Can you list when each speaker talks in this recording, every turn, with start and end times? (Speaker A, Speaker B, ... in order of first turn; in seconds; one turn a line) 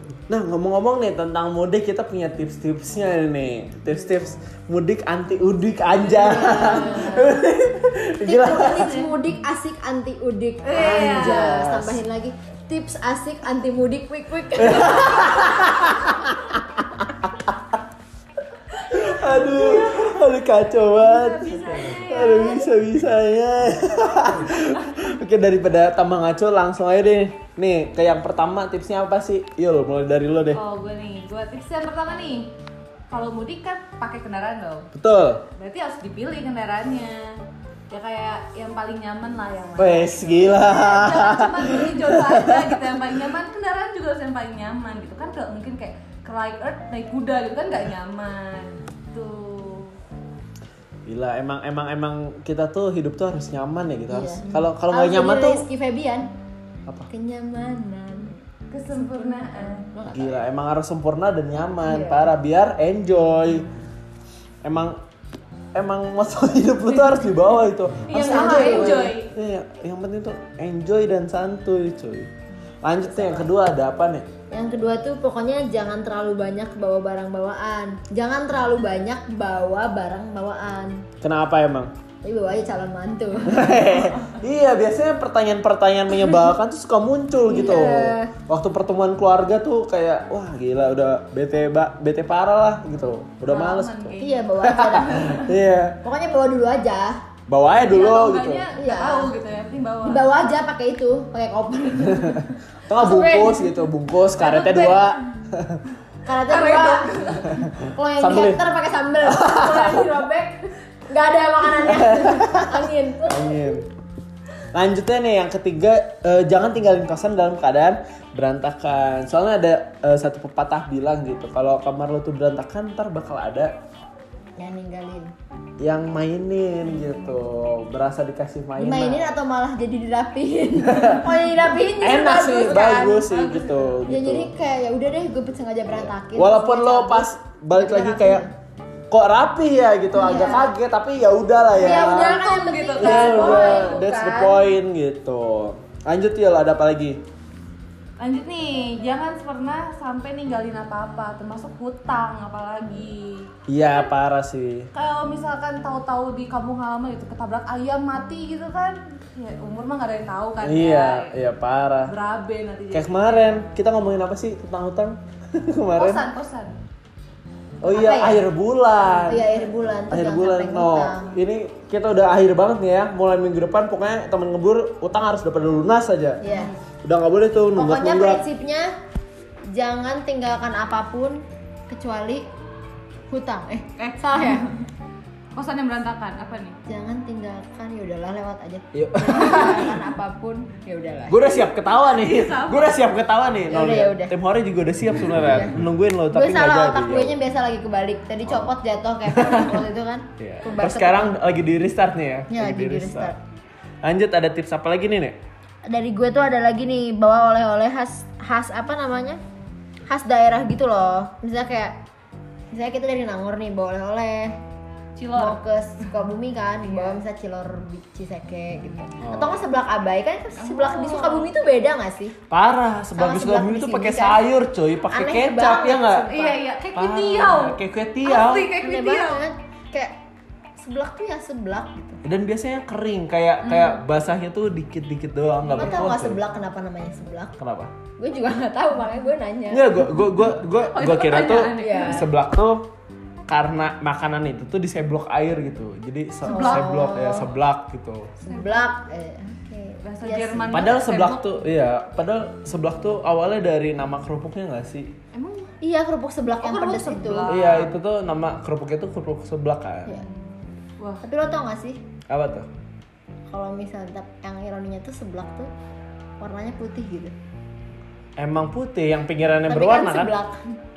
Speaker A: 0.3-9.0
Speaker B: 6.1-7.4
Speaker C: 6.2-7.2
Speaker B: 8.2-16.2
Speaker C: 8.7-9.1
Speaker C: 10.6-11.6
Speaker A: 10.7-12.0
Speaker A: 14.6-17.6
Speaker A: 18.9-30.6
Speaker C: 19.0-20.2
Speaker C: 20.9-22.7
Speaker C: 30.5-32.5
Speaker C: 33.1-34.9
Speaker A: 34.9-35.4
Speaker C: 35.5-50.0
Speaker A: 39.8-42.9
Speaker A: 51.0-55.6
Speaker B: 54.1-56.3
Speaker B: 57.1-58.4
Speaker C: 58.7-59.9
Speaker B: 59.1-60.5
Speaker A: 60.1-63.7
Speaker B: 61.8-62.3
Speaker A: 64.6-65.0
Speaker A: 65.7-72.3
Speaker C: 67.0-67.3
Speaker C: 68.1-69.3
Speaker B: 68.1-69.1
Speaker A: 72.8-74.3
Speaker B: 73.0-73.5
Speaker B: 74.5-81.0
Speaker A: 81.2-81.9
Speaker B: 82.2-84.0
Speaker A: 83.4-96.0
Speaker B: 87.5-88.3
Speaker C: 93.5-94.5
Speaker B: 94.2-95.5
Speaker B: 96.0-97.2
Speaker A: 97.5-98.7
Speaker C: 97.8-100.3
Speaker B: 98.8-99.3
Speaker B: 100.0-103.8
Speaker A: 102.2-105.8
Speaker C: 104.4-105.2
Speaker B: 106.2-113.8
Speaker C: 106.5-107.6
Speaker A: 107.5-108.6
Speaker A: 109.2-110.1
Speaker A: 111.8-113.8
Speaker A: 114.7-123.7
Speaker B: 124.6-125.3
Speaker A: 125.8-129.3
Speaker B: 128.8-133.2
Speaker A: 130.8-134.5
Speaker C: 132.7-134.0
Speaker B: 134.1-138.5
Speaker A: 135.9-138.4
Speaker A: 139.1-142.4
Speaker B: 140.1-140.7
Speaker B: 141.7-144.6
Speaker C: 141.9-144.0
Speaker A: 143.0-147.2
Speaker C: 148.2-153.5
Speaker A: 153.7-154.9
Speaker C: 154.9-161.3
Speaker A: 160.6-162.1
Speaker C: 162.1-163.7
Speaker A: 162.9-166.2
Speaker C: 165.9-166.8
Speaker A: 167.8-169.5
Speaker B: 167.8-168.4
Speaker B: 169.2-171.3
Speaker A: 170.1-176.4
Speaker B: 176.4-176.7
Speaker C: 176.5-176.8
Speaker A: 177.0-178.4
Speaker B: 177.7-178.9
Speaker B: 179.7-182.4
Speaker B: 183.3-184.7
Speaker C: 184.0-184.7
Speaker C: 185.5-186.8
Speaker B: 186.8-191.5
Speaker A: 188.9-190.0
Speaker A: 191.3-197.4
Speaker C: 192.0-193.0
Speaker B: 193.7-194.3
Speaker B: 195.3-195.7
Speaker B: 196.3-201.4
Speaker A: 198.5-198.7
Speaker A: 199.3-199.8
Speaker A: 200.4-203.3
Speaker B: 202.5-203.4
Speaker A: 204.0-205.4
Speaker B: 205.8-209.4
Speaker B: 210.1-212.0
Speaker B: 212.7-214.6
Speaker C: 215.2-215.6
Speaker B: 215.3-222.3
Speaker C: 216.9-217.2
Speaker A: 219.2-219.6
Speaker C: 220.6-221.5
Speaker A: 222.5-226.3
Speaker B: 223.1-224.4
Speaker B: 225.1-226.6
Speaker C: 226.2-229.4
Speaker A: 226.9-228.7
Speaker B: 228.7-230.1
Speaker B: 230.8-232.2
Speaker A: 232.2-236.4
Speaker C: 233.7-234.0
Speaker B: 235.8-237.6
Speaker A: 237.6-237.9
Speaker B: 238.2-240.1
Speaker A: 239.7-242.9
Speaker C: 240.6-242.3
Speaker B: 241.8-242.2
Speaker A: 243.5-248.3
Speaker B: 246.4-247.5
Speaker C: 246.5-247.1
Speaker B: 248.4-250.9
Speaker C: 248.5-248.9
Speaker C: 250.0-251.5
Speaker A: 250.7-255.1
Speaker C: 255.3-255.7
Speaker B: 255.8-257.6
Speaker C: 256.6-257.9
Speaker A: 257.4-260.2
Speaker C: 261.0-261.2
Speaker B: 261.2-262.0
Speaker A: 262.3-262.7
Speaker B: 263.5-265.7
Speaker B: 266.4-267.3
Speaker A: 268.4-270.3
Speaker B: 269.7-270.6